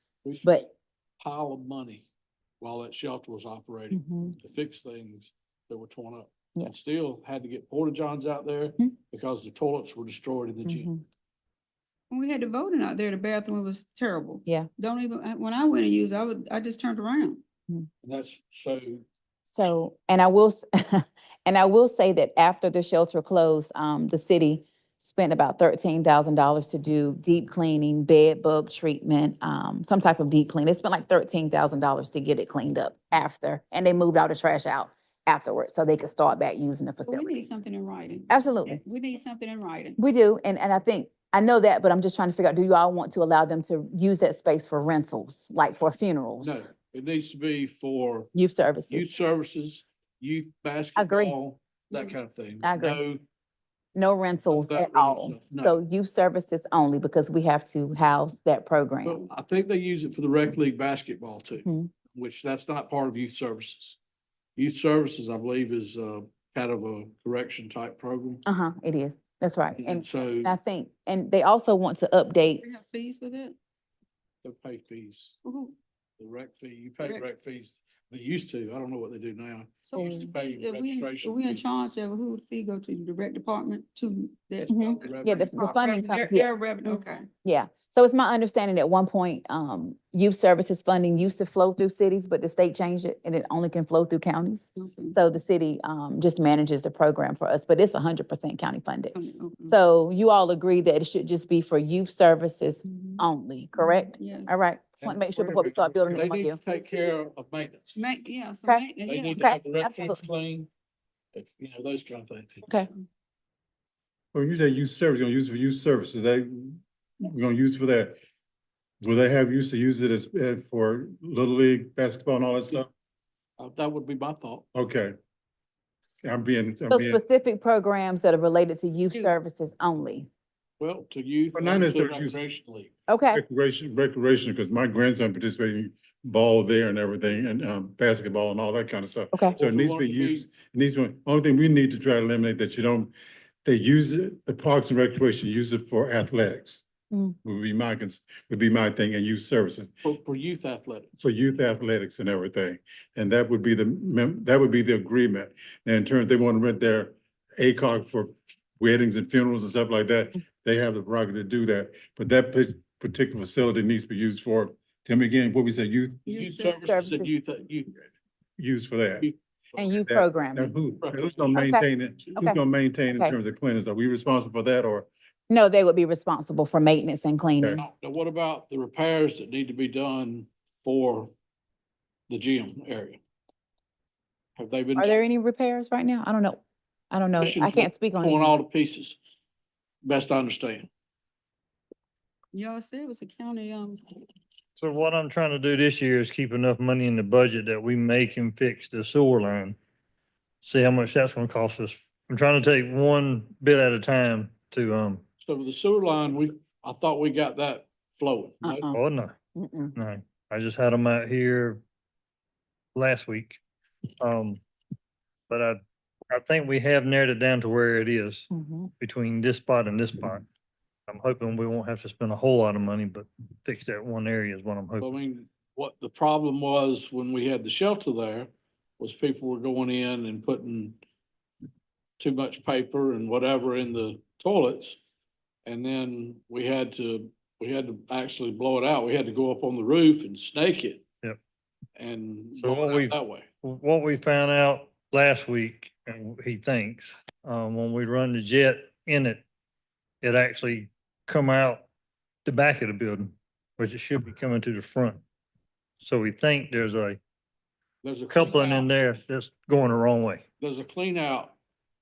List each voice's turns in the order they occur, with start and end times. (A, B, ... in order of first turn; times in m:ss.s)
0:00.2-0:02.0 A
0:02.6-0:10.9 A
0:03.9-0:04.3 B
0:10.6-0:11.0 B
0:12.1-0:17.4 C
0:18.0-0:19.0 A
0:19.5-0:37.4 B
0:37.0-0:40.0 C
0:38.3-0:38.8 B
0:40.0-0:46.6 B
0:46.4-0:48.3 A
0:48.3-0:49.1 B
0:48.9-0:53.2 A
0:51.0-0:51.3 B
0:52.6-0:53.0 B
0:53.9-0:59.2 B
0:54.5-0:55.8 A
0:59.0-1:04.0 A
1:04.6-1:08.4 A
1:08.4-1:12.6 B
1:09.8-1:10.5 A
1:12.6-1:13.6 C
1:14.4-1:15.4 A
1:15.4-1:15.8 C
1:16.2-1:21.6 A
1:19.8-1:27.3 C
1:20.0-1:20.3 B
1:24.7-1:46.6 B
1:25.0-1:25.8 A
1:34.8-1:35.2 C
1:39.1-1:39.8 C
1:42.9-1:43.2 C
1:43.7-1:44.5 C
1:45.3-1:46.2 D
1:46.1-1:48.0 A
1:47.9-1:49.4 C
1:49.0-1:50.7 A
1:49.4-1:50.2 B
1:51.3-1:52.7 A
1:54.3-1:58.2 D
1:59.0-2:02.9 D
2:03.6-2:04.6 A
2:04.7-2:05.1 D
2:06.2-2:07.2 D
2:06.9-2:10.3 B
2:10.8-2:12.9 A
2:11.5-2:12.4 D
2:13.1-2:13.4 B
2:13.3-2:23.1 D
2:19.5-2:20.4 A
2:23.6-2:26.8 D
2:27.4-2:30.0 D
2:30.0-2:31.1 A
2:31.2-2:46.2 D
2:46.2-2:46.9 C
2:46.2-2:47.9 A
2:46.8-2:47.3 B
2:48.6-2:49.3 D
2:49.2-2:49.8 A
2:49.8-2:50.7 B
2:50.0-2:55.1 D
2:51.0-2:51.6 A
2:51.5-2:51.9 B
2:55.5-2:57.8 B
2:57.8-3:01.3 A
3:02.3-3:03.2 A
3:04.6-3:05.2 A
3:05.0-3:06.6 B
3:07.1-3:08.6 B
3:07.4-3:09.2 A
3:10.0-3:10.9 A
3:12.5-3:14.0 C
3:14.8-3:19.8 E
3:20.6-3:25.2 E
3:25.4-3:28.9 A
3:28.6-3:29.0 B
3:28.8-3:29.3 E
3:29.5-3:29.9 B
3:30.0-3:31.8 E
3:32.9-3:33.6 E
3:34.2-3:34.6 E
3:35.5-3:35.8 E
3:36.3-3:38.5 E
3:38.5-3:38.9 B
3:39.0-3:40.4 E
3:41.1-3:45.1 E
3:45.0-3:51.0 A
3:52.2-3:55.0 A
3:55.6-4:01.0 A
4:02.0-4:03.5 A
4:02.6-4:09.4 E
4:10.2-4:11.9 E
4:12.4-4:15.2 E
4:16.0-4:17.2 E
4:18.0-4:19.1 A
4:18.3-4:20.4 E
4:20.6-4:21.5 A